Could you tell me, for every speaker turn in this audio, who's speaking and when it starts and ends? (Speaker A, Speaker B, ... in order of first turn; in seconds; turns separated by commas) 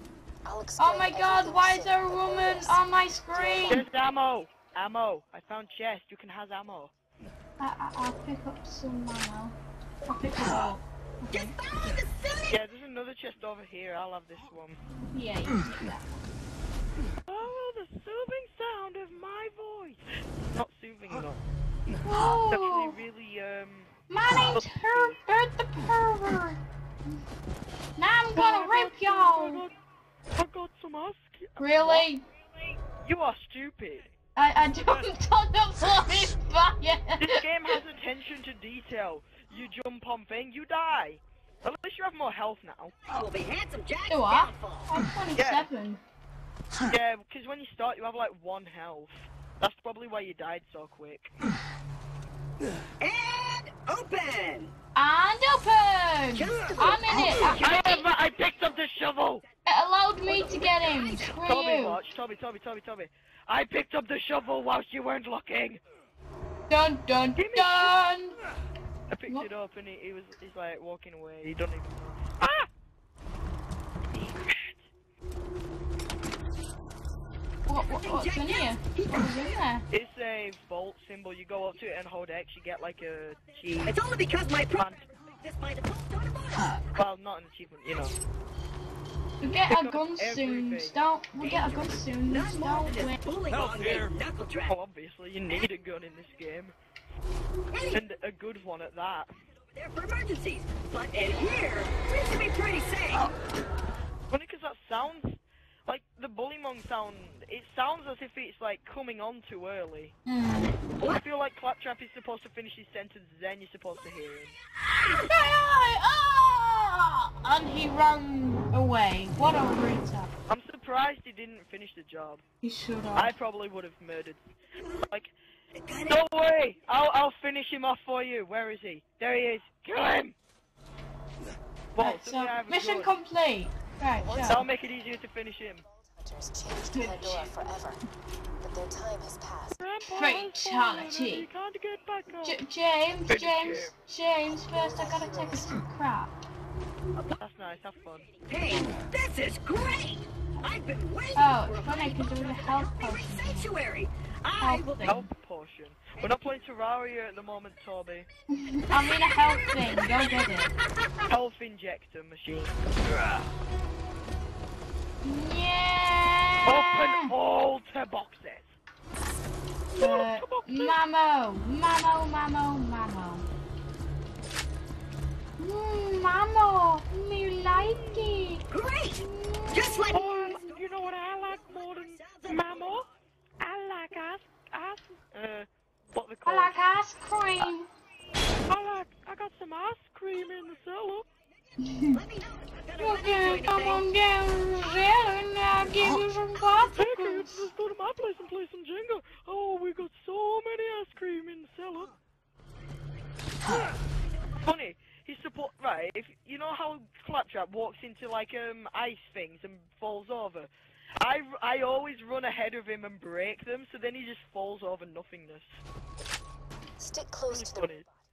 Speaker A: 0.5-2.8, Speaker B: 0.8-3.9, Speaker A: 3.4-3.8, Speaker C: 3.7-6.9, Speaker B: 7.6-11.6, Speaker D: 11.3-12.6, Speaker C: 12.5-14.8, Speaker B: 15.1-16.1, Speaker C: 17.3-21.4, Speaker C: 21.9-25.2, Speaker B: 22.0-23.0, Speaker B: 24.1-26.6, Speaker B: 28.0-29.6, Speaker C: 28.4-29.8, Speaker C: 30.4-32.1, Speaker B: 31.6-32.2, Speaker C: 33.0-34.1, Speaker B: 34.4-37.5, Speaker C: 37.2-43.0, Speaker D: 43.1-44.9, Speaker B: 44.1-46.0, Speaker C: 45.4-45.7, Speaker C: 46.9-51.3, Speaker D: 53.0-54.7, Speaker B: 55.0-58.0, Speaker D: 56.4-58.5, Speaker C: 57.5-59.4, Speaker B: 59.7-62.0, Speaker D: 60.3-61.4, Speaker C: 61.4-65.8, Speaker B: 66.7-68.4, Speaker C: 67.4-68.0, Speaker C: 69.1-72.7, Speaker C: 74.1-74.9, Speaker B: 77.7-79.8, Speaker D: 77.9-79.5, Speaker C: 79.9-84.0, Speaker D: 83.8-87.0, Speaker C: 84.7-85.0, Speaker C: 87.0-88.2, Speaker B: 89.4-93.2, Speaker C: 89.5-91.0, Speaker D: 91.4-94.8, Speaker C: 94.7-96.7, Speaker D: 97.7-98.0, Speaker C: 97.9-99.4, Speaker D: 99.5-103.3, Speaker C: 104.3-110.1, Speaker B: 110.3-110.8, Speaker C: 111.0-114.6, Speaker B: 115.2-120.3, Speaker C: 120.5-122.4, Speaker B: 122.6-123.3, Speaker C: 123.1-124.5, Speaker D: 125.8-126.2, Speaker C: 126.1-130.3, Speaker C: 131.9-133.1, Speaker B: 132.0-134.7, Speaker A: 134.2-134.7, Speaker C: 134.4-135.8, Speaker A: 136.0-138.0, Speaker B: 136.9-137.5, Speaker A: 138.6-139.8, Speaker C: 139.8-142.6, Speaker B: 140.1-141.5, Speaker B: 142.4-146.4, Speaker C: 143.3-143.9, Speaker A: 144.5-145.8, Speaker D: 147.2-155.2, Speaker C: 147.4-148.3, Speaker B: 148.7-149.0, Speaker B: 151.3-153.7, Speaker B: 154.6-155.3, Speaker C: 155.1-158.3, Speaker B: 158.5-160.7, Speaker D: 158.9-159.8, Speaker C: 161.3-162.8, Speaker B: 165.2-167.3, Speaker C: 166.7-168.7, Speaker C: 170.0-171.0, Speaker B: 170.0-173.4, Speaker B: 175.6-178.6, Speaker D: 178.7-183.1, Speaker B: 179.2-180.4, Speaker C: 180.1-183.1, Speaker C: 183.6-186.8, Speaker B: 186.5-187.9, Speaker C: 188.7-191.3, Speaker B: 191.8-192.2, Speaker D: 192.1-194.1, Speaker B: 193.0-197.6, Speaker C: 197.0-202.1, Speaker C: 204.6-210.7, Speaker C: 211.2-215.8, Speaker A: 217.0-218.0, Speaker C: 217.5-218.1